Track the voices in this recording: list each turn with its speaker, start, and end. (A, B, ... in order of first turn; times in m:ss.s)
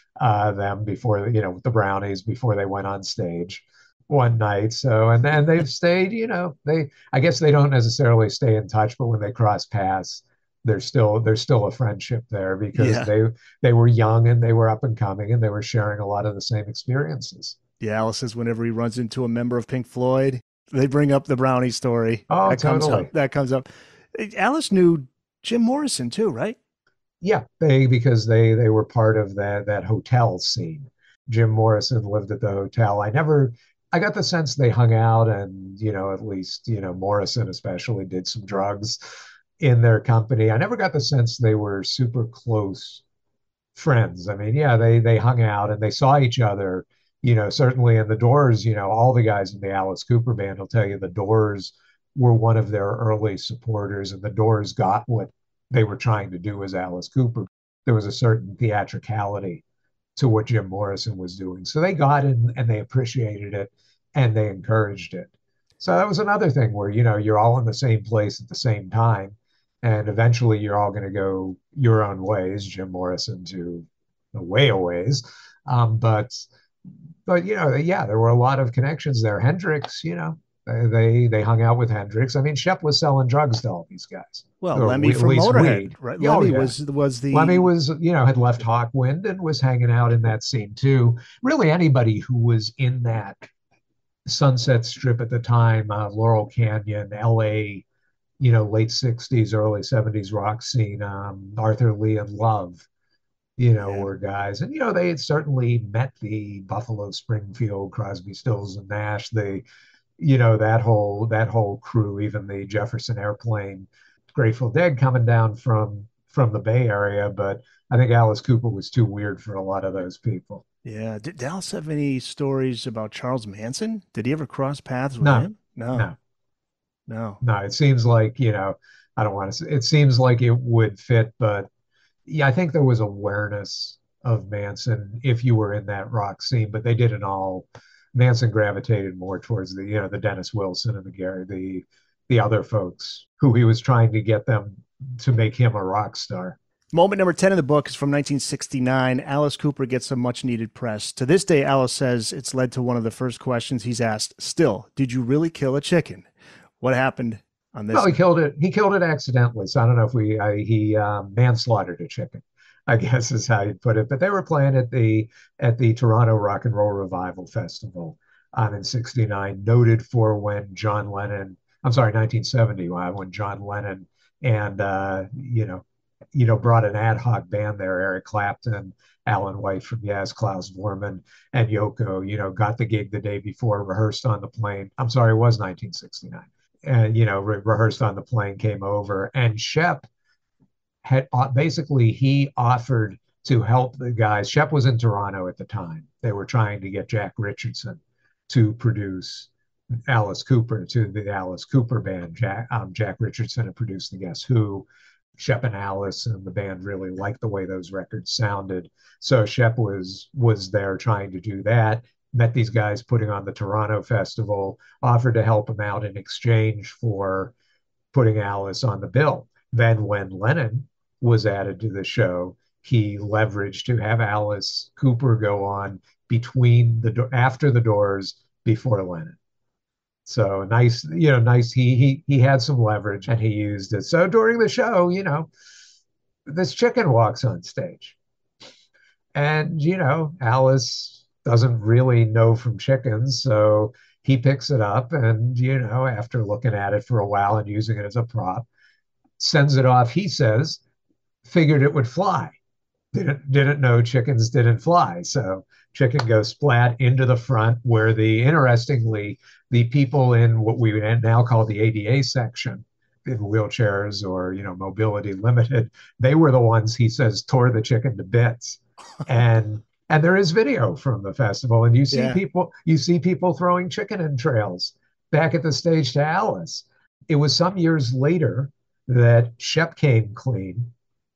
0:00.2-0:17.6 A
0:12.8-0:13.1 B
0:17.8-0:26.6 B
0:22.3-0:23.1 A
0:27.2-0:39.0 A
0:39.6-0:43.0 A
0:43.8-0:59.6 A
1:00.2-1:16.5 A
1:17.3-1:26.7 A
1:24.6-1:27.7 B
1:27.3-1:33.5 A
1:34.3-1:37.8 A
1:38.4-1:42.8 A
1:43.6-1:49.6 A
1:43.8-1:44.1 B
1:50.2-2:00.6 A
2:00.8-2:06.1 B
2:05.2-2:06.2 A
2:07.1-2:07.4 B
2:07.4-2:11.7 A
2:12.3-2:26.6 A
2:26.9-2:36.3 B
2:36.8-2:38.2 B
2:37.9-3:10.1 A
3:11.0-3:19.5 A
3:20.1-3:24.9 A
3:25.4-3:37.5 A
3:38.1-3:49.4 A
3:50.3-3:55.5 A
3:56.5-3:58.2 A
3:59.4-4:08.7 A
4:09.4-4:10.8 A
4:11.4-4:12.6 A
4:13.1-4:40.9 A
4:32.1-4:32.4 B